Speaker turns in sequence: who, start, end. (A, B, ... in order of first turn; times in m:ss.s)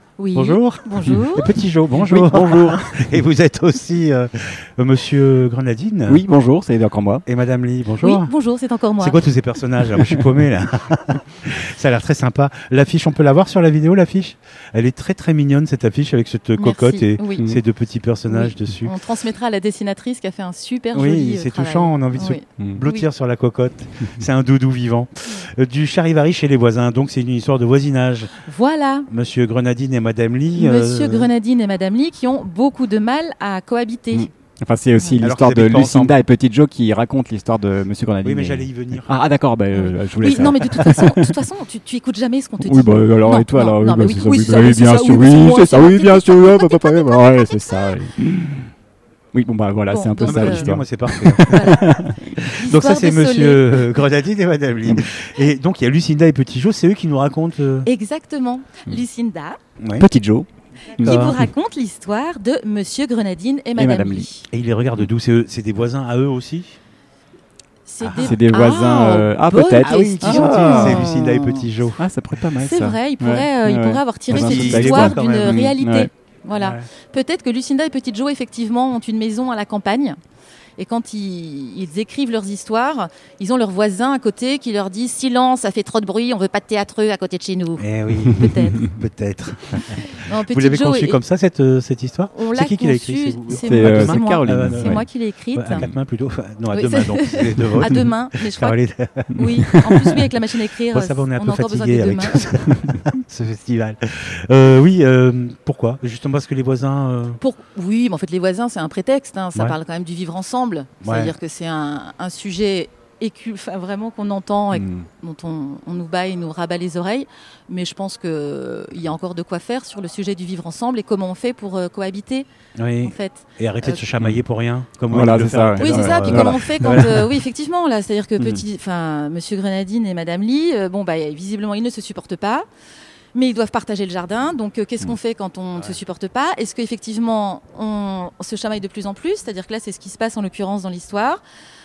0:00.2-0:01.5 A
0:00.3-0:06.2 B
0:01.9-0:03.0 C
0:06.1-0:07.2 C
0:07.2-0:08.3 B
0:08.0-0:09.2 A
0:09.0-0:18.9 B
0:16.6-0:17.5 A
0:18.3-0:23.0 A
0:20.9-0:28.3 B
0:28.4-0:29.1 A
0:29.1-0:31.3 B
0:30.5-0:34.3 A
0:34.1-0:41.3 C
0:35.2-0:36.2 B
0:38.2-0:39.1 B
0:39.7-0:47.6 A
0:42.6-0:48.7 C
0:49.3-0:52.4 C
0:49.9-0:50.7 A
0:50.2-0:51.6 B
0:51.4-0:51.9 A
0:52.5-0:54.0 A
0:52.5-0:57.9 B
0:57.8-0:59.6 A
0:59.8-1:00.0 B
1:00.0-1:00.5 C
1:01.0-1:04.5 A
1:01.0-1:01.5 C
1:01.0-1:01.4 B
1:03.8-1:04.3 C
1:04.5-1:06.8 B
1:07.9-1:11.7 A
1:08.0-1:08.3 B
1:08.2-1:11.1 C
1:09.8-1:12.0 B
1:12.0-1:16.1 C
1:12.6-1:20.2 A
1:14.3-1:15.6 B
1:16.5-1:16.8 B
1:20.8-1:28.9 A
1:27.8-1:39.6 B
1:30.0-1:31.2 A
1:32.3-1:35.8 A
1:33.5-1:35.0 C
1:36.7-1:38.8 A
1:37.6-1:38.1 C
1:39.3-1:42.4 A
1:39.8-1:40.2 C
1:40.9-1:47.4 B
1:47.4-2:02.5 A
1:51.0-1:51.3 B
1:54.7-1:55.0 C
2:02.8-2:07.3 B
2:03.0-2:04.0 A
2:05.1-2:07.1 C
2:05.8-2:12.6 A
2:13.3-2:21.4 A